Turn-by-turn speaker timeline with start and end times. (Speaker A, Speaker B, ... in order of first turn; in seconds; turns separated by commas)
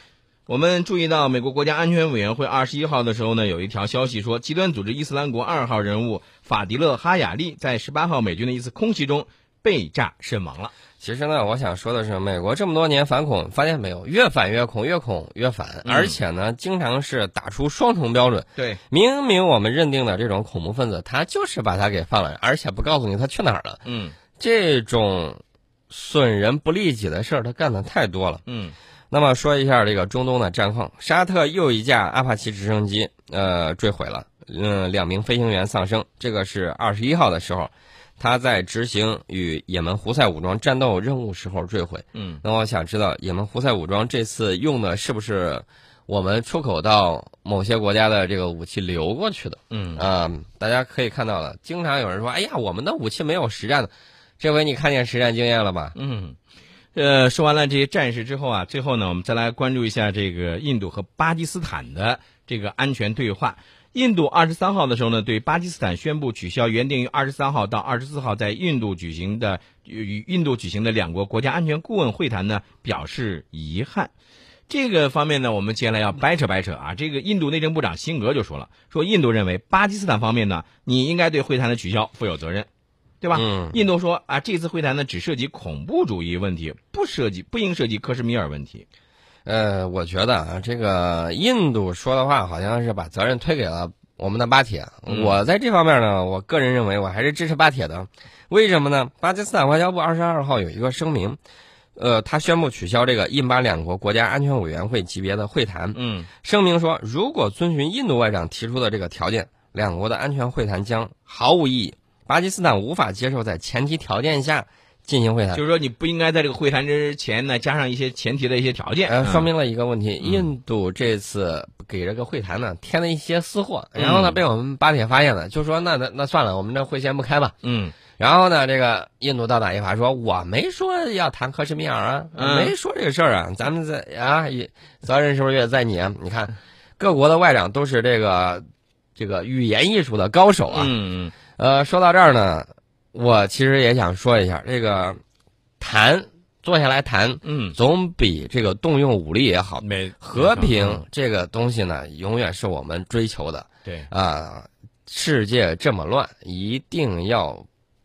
Speaker A: 0.5-10.7, Speaker B: 11.0-23.8, Speaker A: 15.8-16.2, Speaker A: 23.9-24.2, Speaker B: 24.4-28.4, Speaker A: 28.5-28.8, Speaker B: 29.1-56.0, Speaker A: 42.1-42.4, Speaker A: 49.7-50.0, Speaker A: 56.0-56.4, Speaker A: 57.0-74.1, Speaker A: 74.7-82.7, Speaker A: 83.2-88.9, Speaker B: 83.3-83.8, Speaker B: 89.5-101.4, Speaker A: 95.1-95.4, Speaker B: 102.0-115.6, Speaker A: 106.0-106.3, Speaker A: 115.5-119.5, Speaker B: 119.1-127.5, Speaker A: 120.2-120.5, Speaker A: 124.0-124.4, Speaker A: 127.6-128.0, Speaker B: 128.2-138.6, Speaker A: 132.3-132.7, Speaker B: 139.2-140.9, Speaker A: 140.7-141.3, Speaker B: 141.6-145.2, Speaker B: 145.8-157.7, Speaker A: 147.4-147.8, Speaker A: 149.8-151.0